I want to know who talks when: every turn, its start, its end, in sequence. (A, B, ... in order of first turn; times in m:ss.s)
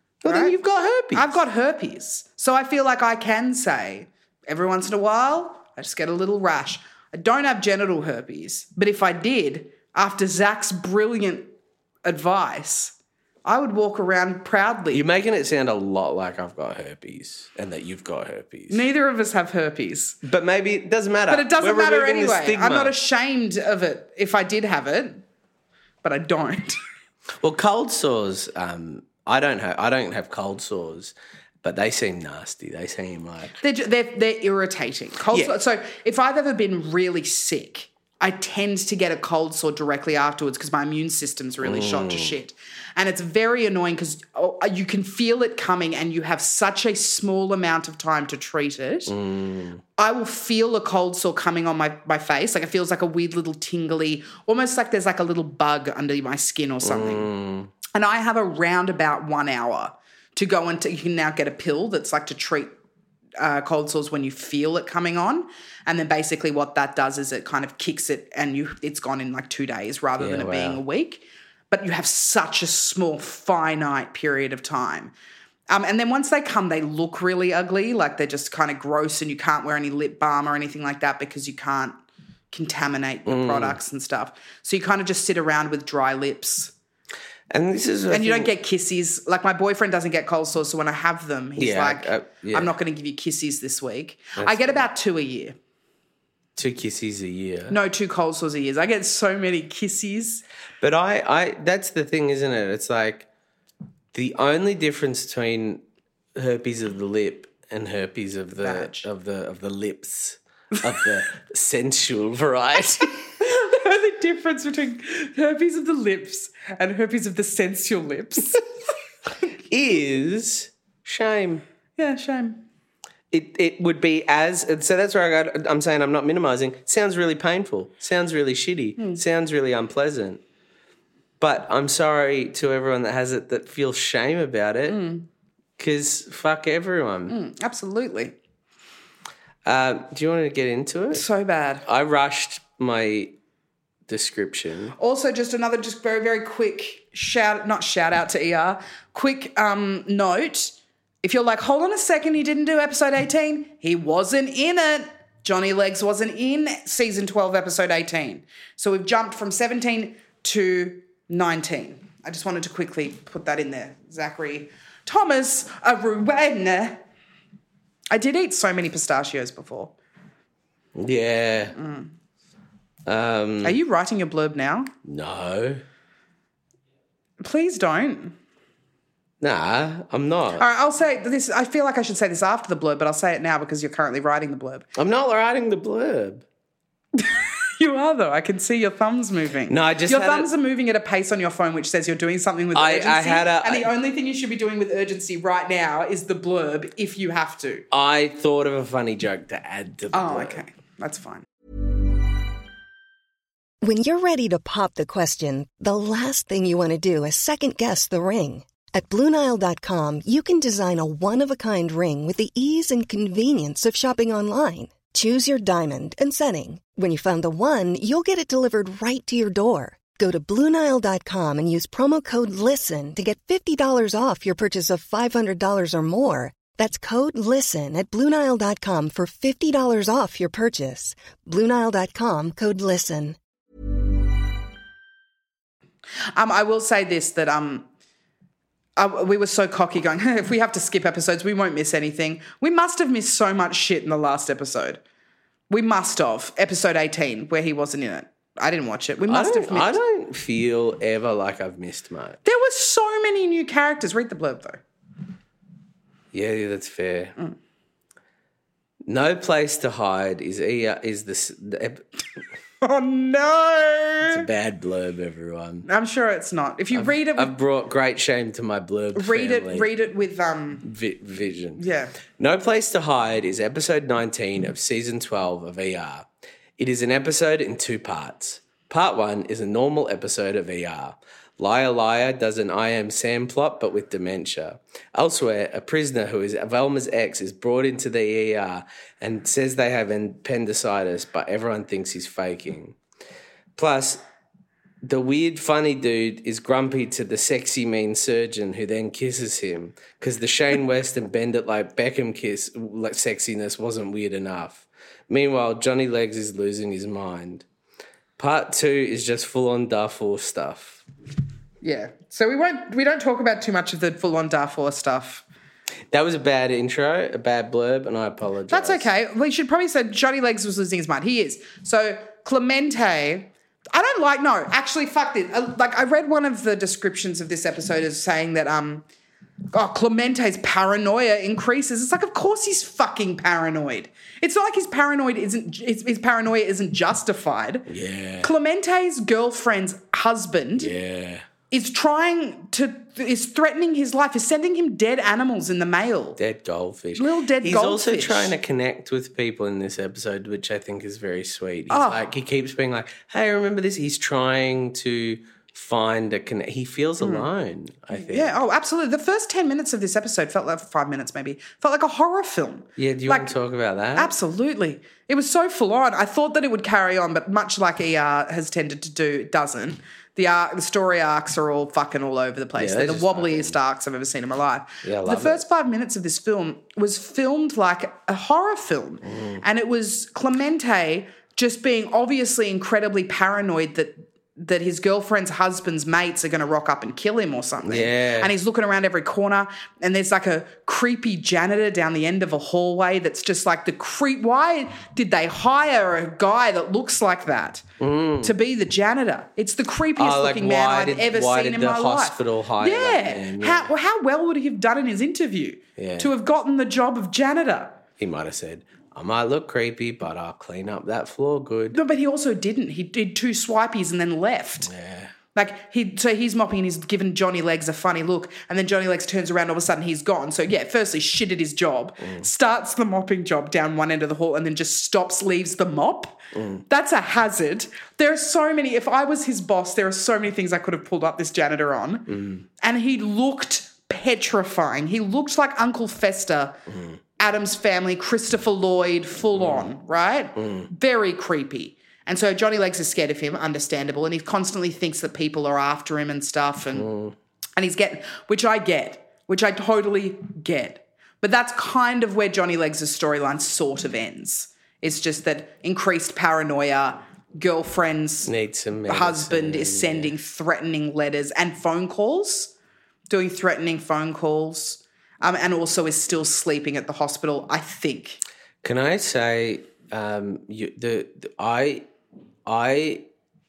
0:00.2-0:01.3 A
0:00.2-0:00.6 B
0:01.1-0:11.5 B
0:12.0-0:15.0 B
0:14.9-0:18.9 A
0:18.7-0:20.2 B
0:20.2-0:23.0 A
0:21.3-0:25.2 B
0:26.0-0:26.8 B
0:27.4-0:33.6 A
0:33.6-0:49.2 B
0:41.6-0:42.4 A
0:49.1-0:49.8 A
0:50.0-0:57.3 B
0:56.8-0:57.7 A
0:57.9-1:02.7 B
1:03.4-1:15.1 B
1:10.2-1:10.8 A
1:15.7-1:22.0 B
1:22.5-1:26.7 B
1:23.3-1:23.8 A
1:27.5-1:28.5 A
1:28.1-1:35.6 B
1:31.6-1:32.7 A
1:34.4-1:34.8 A
1:36.6-1:37.8 A
1:37.7-1:40.4 B
1:40.8-1:43.3 A
1:44.1-1:45.8 A
1:46.4-1:53.3 A
1:48.6-1:49.1 B
1:53.4-1:58.7 B
1:59.7-2:01.6 A
2:02.0-2:02.6 B
2:03.3-2:10.4 A
2:11.4-2:15.0 A
2:14.9-2:15.3 B
2:15.8-2:17.4 A
2:17.3-2:18.4 B
2:19.6-2:21.2 A
2:21.1-2:21.8 B
2:21.8-2:23.4 A
2:24.1-2:25.0 A
2:25.0-2:47.0 B
2:48.1-2:50.0 B
2:51.0-2:51.8 A
2:51.8-2:52.1 B
2:53.1-2:53.8 A
2:53.6-2:54.9 B
2:55.1-2:55.8 A
2:57.4-2:58.4 B
2:59.4-3:00.6 A
3:00.6-3:04.9 B
3:05.0-3:06.4 A
3:07.2-3:17.9 B
3:09.7-3:10.5 A
3:12.7-3:13.9 A
3:17.9-3:20.6 A
3:20.1-3:21.4 B
3:23.8-3:53.4 C
3:56.4-3:57.9 B
3:59.0-4:05.0 B
4:05.7-4:10.0 B
4:09.3-4:12.4 A
4:12.4-4:14.8 B
4:16.3-4:17.4 A
4:19.1-4:22.0 A
4:22.8-4:24.5 B
4:24.2-4:25.9 A
4:25.9-4:27.5 B
4:26.9-4:29.9 A
4:29.2-4:30.9 B
4:30.8-4:31.8 A
4:31.8-4:32.2 B
4:32.4-4:36.3 A
4:36.8-4:53.0 A
4:53.8-4:54.2 A
4:55.0-5:07.6 A
5:08.4-5:11.0 A
5:11.8-5:15.4 B
5:16.1-5:19.1 A
5:18.7-5:29.0 B
5:29.7-5:37.9 B
5:37.9-5:38.5 A
5:38.4-5:40.9 B
5:40.8-5:41.5 A
5:41.7-5:46.4 B
5:46.4-5:58.6 A
5:47.2-5:48.5 B
5:51.9-5:52.3 B
5:57.2-5:57.5 B
5:58.1-6:03.6 B
6:03.0-6:04.3 A
6:04.2-6:37.8 B
6:12.8-6:13.8 A
6:15.0-6:15.6 A
6:19.2-6:19.6 A
6:27.8-6:28.5 A
6:38.0-6:38.6 A
6:38.4-6:48.0 B
6:40.2-6:43.9 A
6:46.0-6:46.3 A
6:48.2-6:52.0 A
6:51.9-6:54.9 B
6:54.8-6:55.3 A
6:55.5-7:12.3 B
7:06.6-7:06.8 A
7:12.3-7:12.6 A
7:12.8-7:16.8 B
7:16.9-7:17.2 A
7:17.4-7:27.1 B
7:19.6-7:19.9 A
7:20.6-7:20.9 A
7:26.9-7:27.4 A
7:27.8-7:38.5 B
7:38.4-7:40.3 A
7:39.1-7:42.7 B
7:43.3-7:48.4 B
7:48.8-7:52.1 A
7:52.7-7:53.3 A